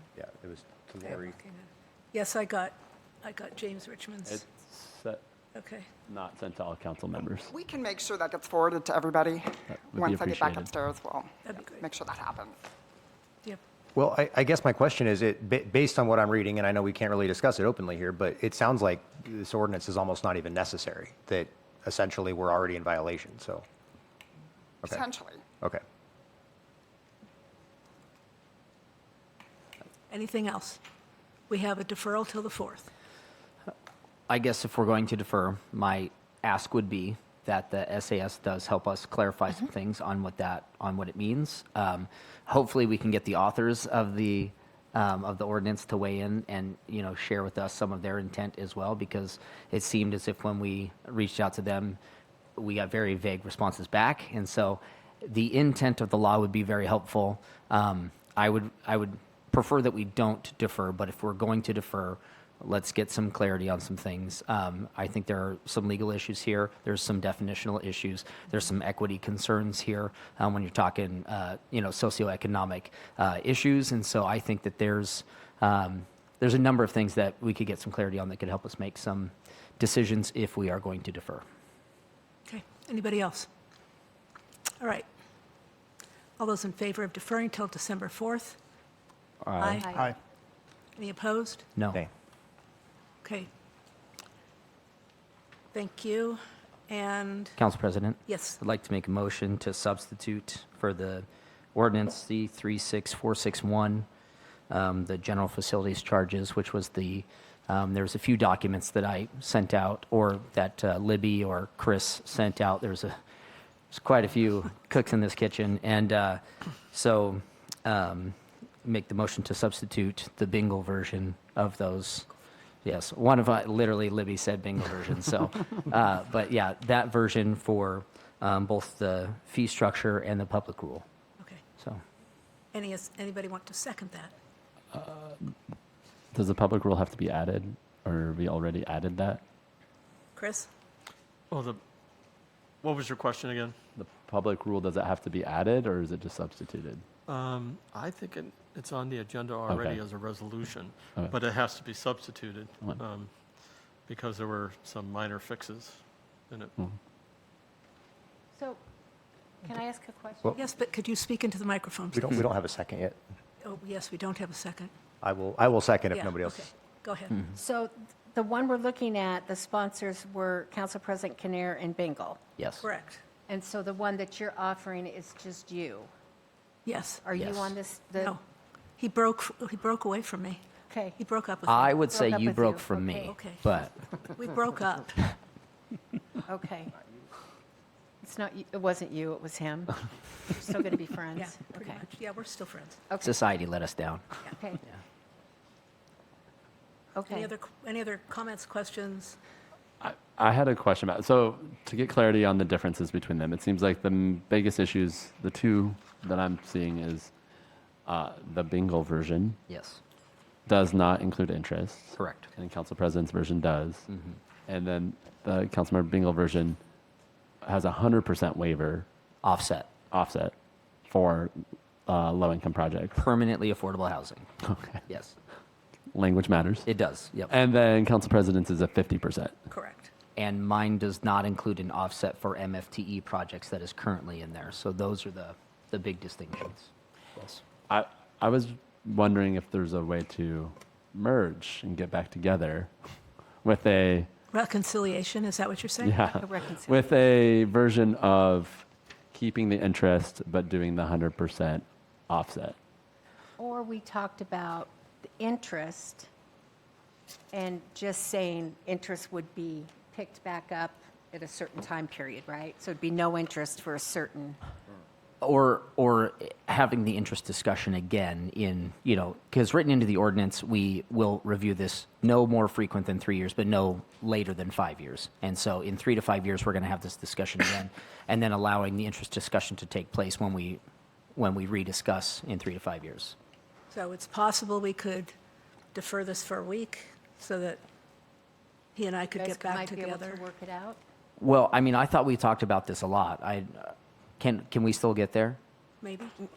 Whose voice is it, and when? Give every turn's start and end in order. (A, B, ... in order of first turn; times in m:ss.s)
0:00.2-0:01.3 A
0:01.0-0:04.4 B
0:04.3-0:05.2 C
0:05.5-0:05.9 B
0:06.1-0:07.5 C
0:07.5-0:12.6 D
0:09.7-0:10.7 C
0:11.4-0:11.9 B
0:14.0-0:23.6 A
0:24.8-0:25.4 D
0:30.1-0:30.8 B
0:31.5-0:32.9 B
0:34.3-0:52.0 E
0:52.6-1:21.4 E
1:22.4-1:23.5 B
1:24.8-1:25.1 B
1:26.4-1:28.6 B
1:29.4-1:29.8 E
1:29.6-1:30.1 B
1:31.0-1:31.6 B
1:33.2-1:33.5 B
1:35.7-1:37.6 B
1:37.6-1:44.1 E
1:38.3-1:38.6 B
1:44.7-1:53.1 E
1:53.9-2:02.3 E
2:02.8-2:11.0 E
2:12.7-2:14.3 B
2:14.9-2:15.5 C
2:16.3-2:19.4 C
2:20.4-2:20.7 B
2:21.5-2:21.8 F
2:22.8-2:23.8 F
2:24.0-2:27.0 C
2:27.3-2:33.3 F
2:29.7-2:30.0 C
2:34.1-2:36.7 F
2:38.5-2:38.8 G
2:39.6-2:40.6 G
2:40.5-2:42.4 B
2:42.1-2:43.2 A
2:43.6-2:44.9 B
2:45.2-2:46.7 A
2:46.1-2:47.4 B
2:47.5-2:52.4 G
2:52.6-2:52.8 E
2:52.8-2:53.2 B
2:53.5-2:56.1 G
2:56.8-2:57.3 B
2:57.2-2:58.4 G
2:57.4-2:57.8 E
2:59.0-3:00.6 B
3:00.9-3:01.2 G
3:01.2-3:01.9 B
3:01.7-3:03.9 E
3:02.0-3:03.4 G
3:03.3-3:03.6 B
3:04.2-3:05.3 B
3:06.4-3:06.9 G
3:08.2-3:12.0 G
3:11.3-3:13.0 B
3:13.1-3:13.3 G
3:13.2-3:14.2 E
3:14.5-3:14.8 G
3:17.1-3:17.5 G
3:17.2-3:19.4 B
3:20.0-3:27.3 C
3:28.0-3:29.6 C
3:29.7-3:30.0 E
3:30.7-3:34.0 C
3:32.2-3:32.5 E
3:34.1-3:34.4 E
3:34.7-3:36.8 C
3:37.6-3:39.0 C
3:39.4-3:39.9 E
3:40.1-3:40.5 C
3:41.1-3:41.5 C
3:42.0-3:43.2 C
3:43.2-3:44.5 E
3:44.6-3:45.0 C
3:45.1-3:45.4 E
3:46.1-3:46.8 C
3:46.8-3:47.5 E
3:47.5-3:49.6 C
3:49.7-3:50.1 B
3:50.4-3:57.6 E
3:57.9-4:04.3 C
4:04.5-4:06.3 B
4:06.0-4:12.8 C
4:06.3-4:07.1 G
4:13.6-4:16.3 G
4:17.5-4:24.6 G
4:25.4-4:40.8 E
4:41.4-4:43.4 E
4:43.9-4:45.3 B
4:45.9-4:47.8 B
4:48.9-4:50.4 B
4:49.3-4:51.0 G
4:51.4-4:55.6 E
4:56.0-4:56.4 B